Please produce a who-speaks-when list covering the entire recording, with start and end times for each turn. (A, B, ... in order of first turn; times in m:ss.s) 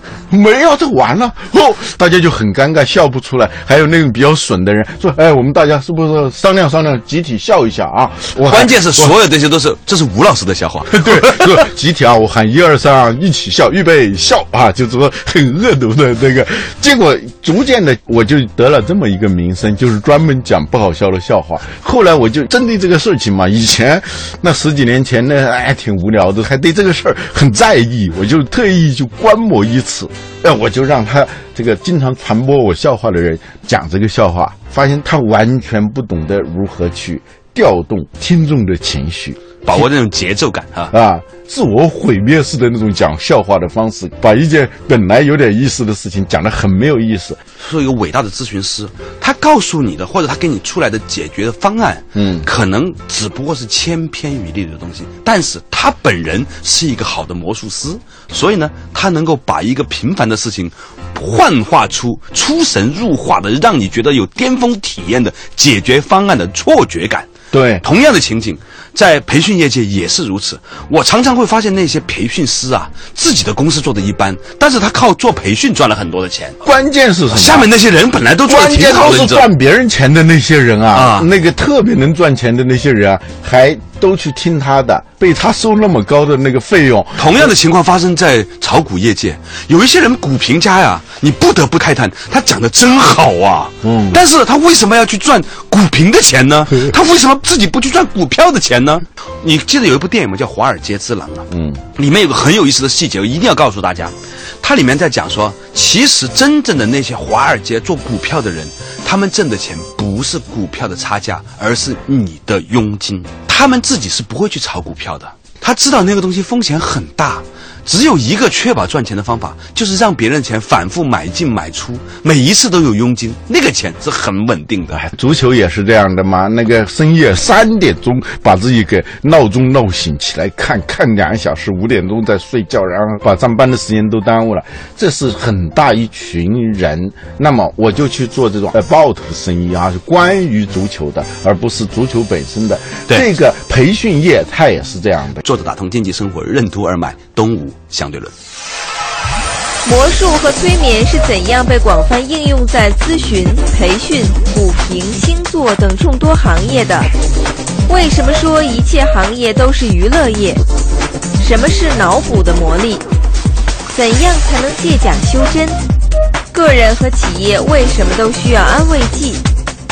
0:00.3-0:09.1 A
0:08.4-0:11.6 B
0:10.9-0:39.8 A
0:39.6-0:40.9 B
0:40.9-0:47.4 A
0:47.6-1:16.6 B
0:52.1-0:52.5 A
1:07.5-1:07.8 A
1:16.6-1:17.7 A
1:17.3-1:19.5 B
1:18.4-1:27.5 A
1:20.9-1:21.3 B
1:27.2-2:05.0 B
1:33.8-1:34.2 A
1:41.5-1:41.8 A
2:04.9-2:25.4 A
2:25.4-2:28.3 B
2:29.8-2:37.1 C
2:37.9-2:40.6 C
2:41.4-2:43.0 C
2:43.9-2:45.8 C
2:46.5-2:49.4 C